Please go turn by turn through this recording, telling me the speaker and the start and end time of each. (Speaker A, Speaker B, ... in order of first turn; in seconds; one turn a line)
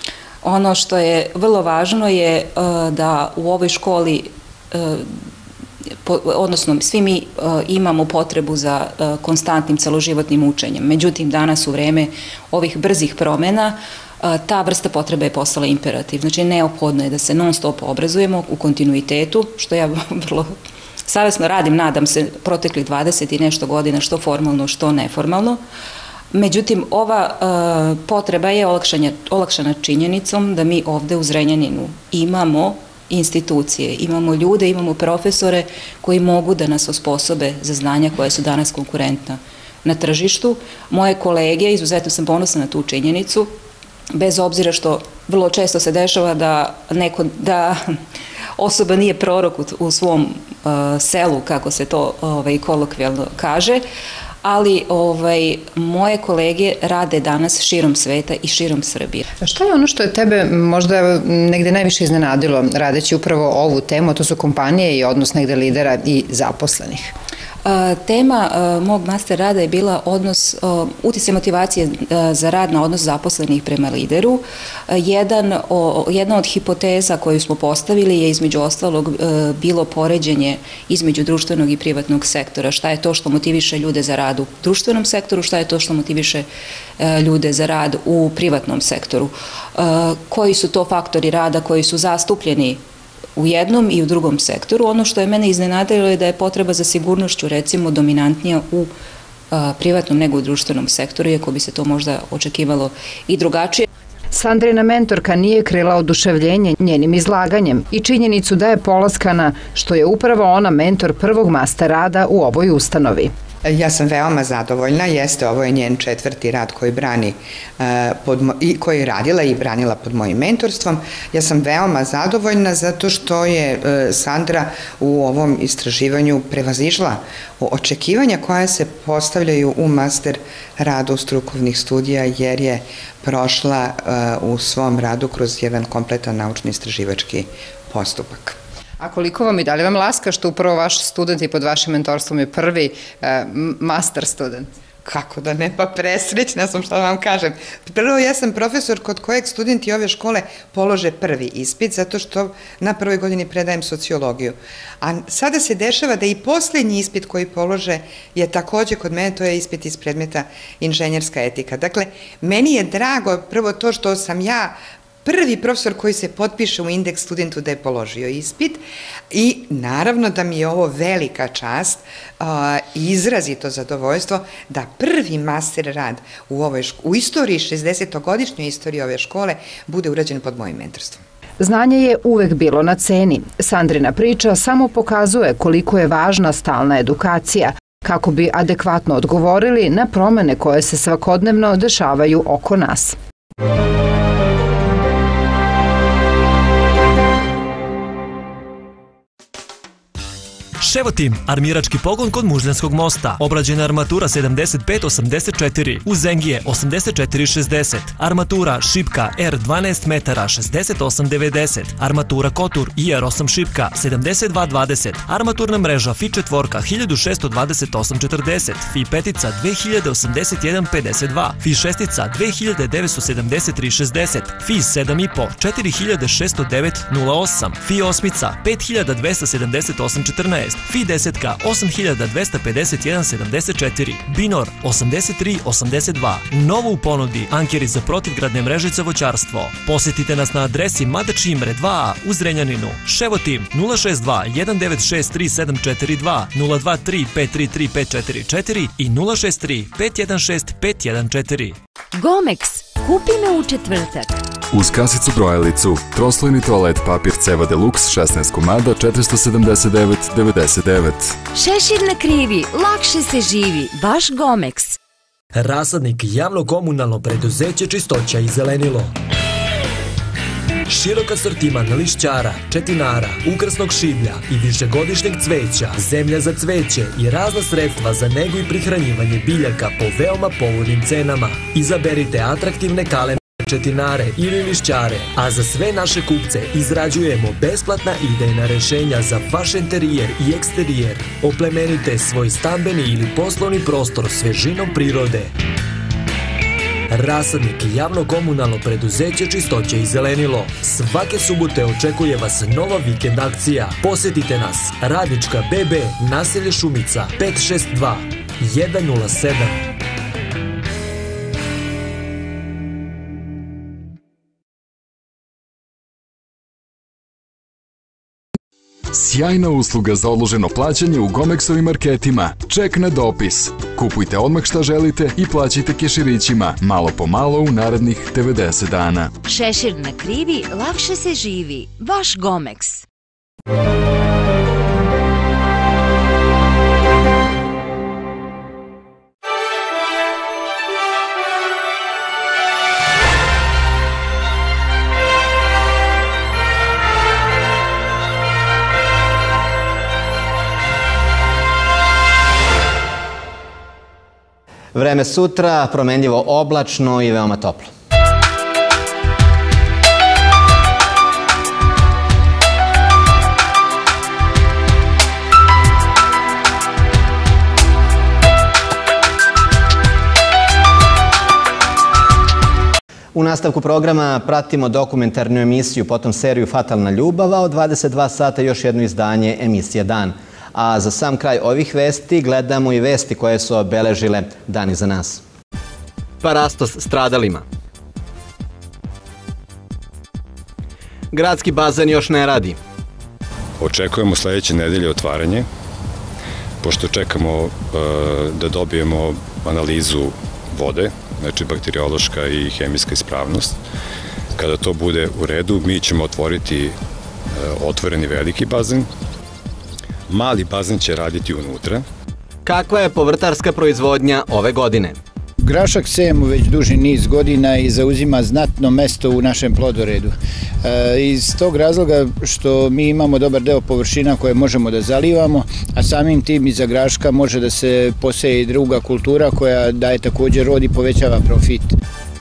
Speaker A: 0.4-5.1
Speaker A: 6.0-20.5
Speaker A: 21.1-25.6
Speaker A: 26.3-43.5
Speaker A: 44.1-47.8
Speaker A: 48.6-53.8
Speaker A: 54.4-59.2
Speaker B: 59.4-67.1
Speaker A: 67.7-86.5
Speaker A: 87.0-92.8
Speaker A: 93.4-98.9
Speaker A: 99.5-103.9
Speaker B: 104.3-113.3
Speaker C: 113.8-117.3
Speaker C: 117.8-138.5
Speaker B: 139.0-144.7
Speaker C: 145.1-164.7
Speaker C: 165.3-168.8
Speaker C: 169.3-181.2
Speaker B: 181.6-193.2
Speaker D: 200.8-251.8
Speaker E: 252.2-254.4
Speaker F: 254.7-261.4
Speaker E: 261.6-265.0
Speaker D: 265.6-269.1
Speaker D: 270.9-295.5
Speaker D: 297.1-309.8
Speaker F: 319.1-329.3
Speaker E: 329.4-333.0
Speaker G: 354.9-357.9
Speaker G: 373.3-385.4
Speaker G: 386.4-387.6
Speaker G: 391.3-392.8
Speaker H: 393.8-395.7
Speaker H: 396.8-403.8
Speaker H: 404.6-406.9
Speaker H: 407.6-409.1
Speaker H: 410.3-412.1
Speaker G: 412.6-415.2
Speaker I: 415.6-420.3
Speaker I: 420.8-432.0